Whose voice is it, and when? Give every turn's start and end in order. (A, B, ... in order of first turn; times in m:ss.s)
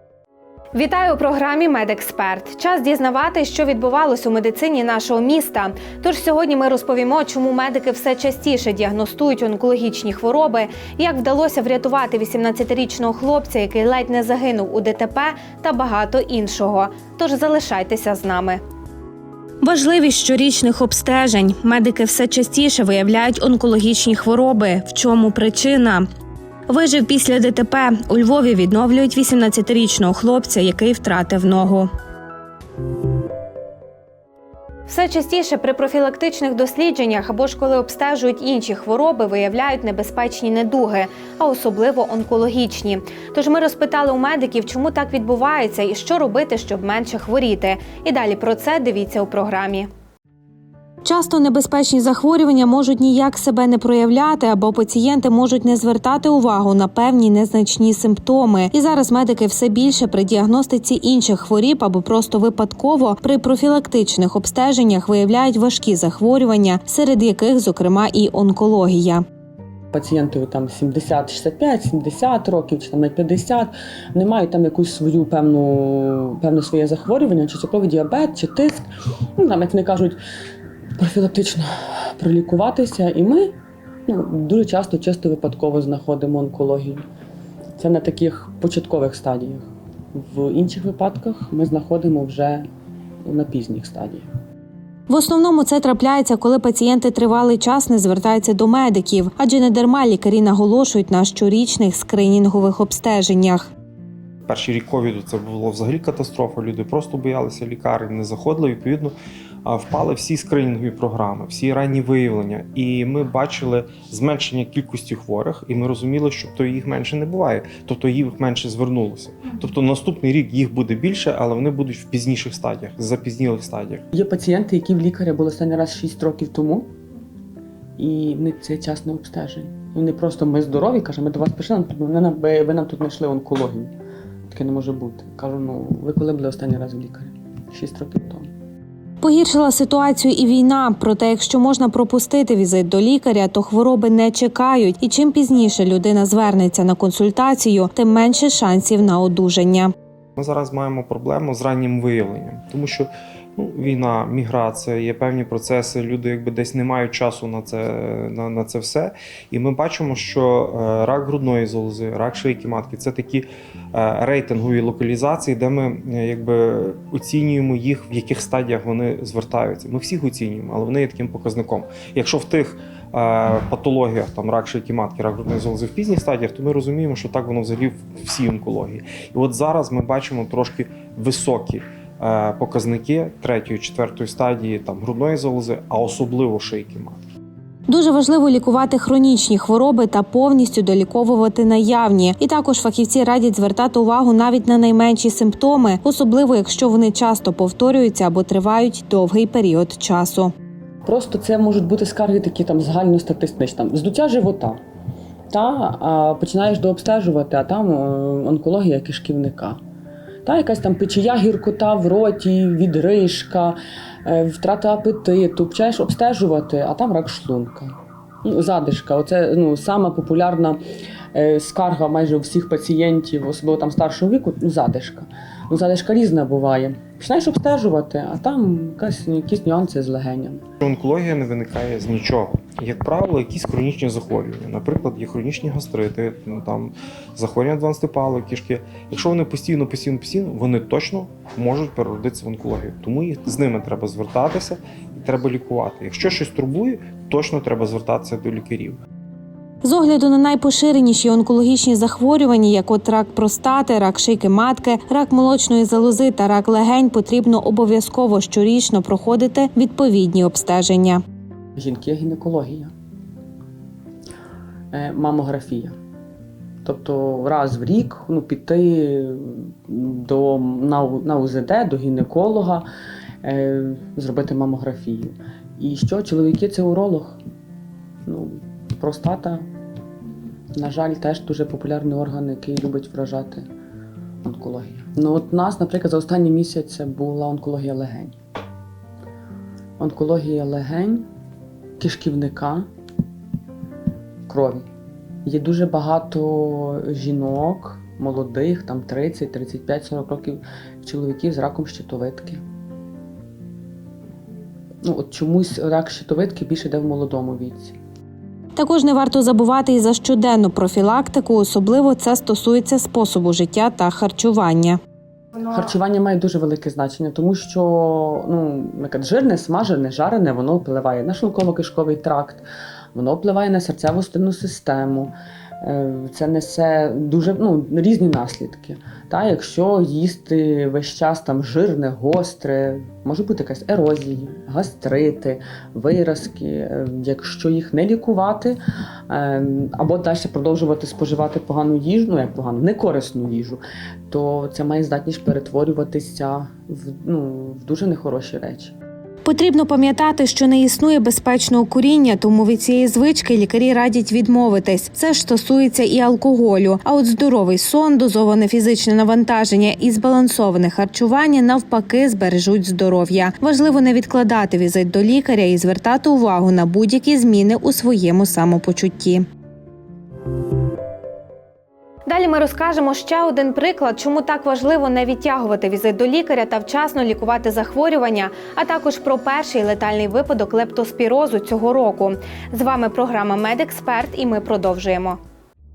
0:00.7-0:18.6 A
0:19.6-0:26.0 A
0:26.7-0:31.9 A
0:34.9-0:49.9 A
0:51.0-1:09.2 A
1:09.9-1:18.8 B
1:19.4-1:20.2 B
1:21.0-1:23.5 B
1:24.1-1:27.0 B
1:27.8-1:32.7 B
1:33.2-1:34.3 B
1:35.1-1:43.7 A
1:44.4-2:04.0 C
2:04.1-2:06.9 B
2:08.0-2:13.9 B
2:14.5-2:18.5 B
2:19.2-2:29.9 A
2:30.4-3:07.2 C
3:07.9-3:20.5 A
3:21.0-3:24.8 B
3:25.5-3:29.8 B
3:30.4-3:40.8 B
3:41.3-3:50.6 B
3:50.8-4:09.0 C
4:09.8-4:21.2 A
4:21.8-4:22.9 B
4:24.9-4:26.0 B
4:26.8-4:32.8 B
4:33.4-4:37.4 B
4:38.2-4:39.7 B
4:40.7-4:43.7 B
4:44.4-4:48.4 B
4:50.0-4:51.3 B
4:52.0-4:52.9 B
4:54.5-4:54.9 B
4:55.4-5:02.6 B
5:05.0-5:08.0 B
5:08.8-5:15.0 A
5:15.7-5:48.9 B
5:49.4-6:09.4 A
6:12.2-6:25.4 A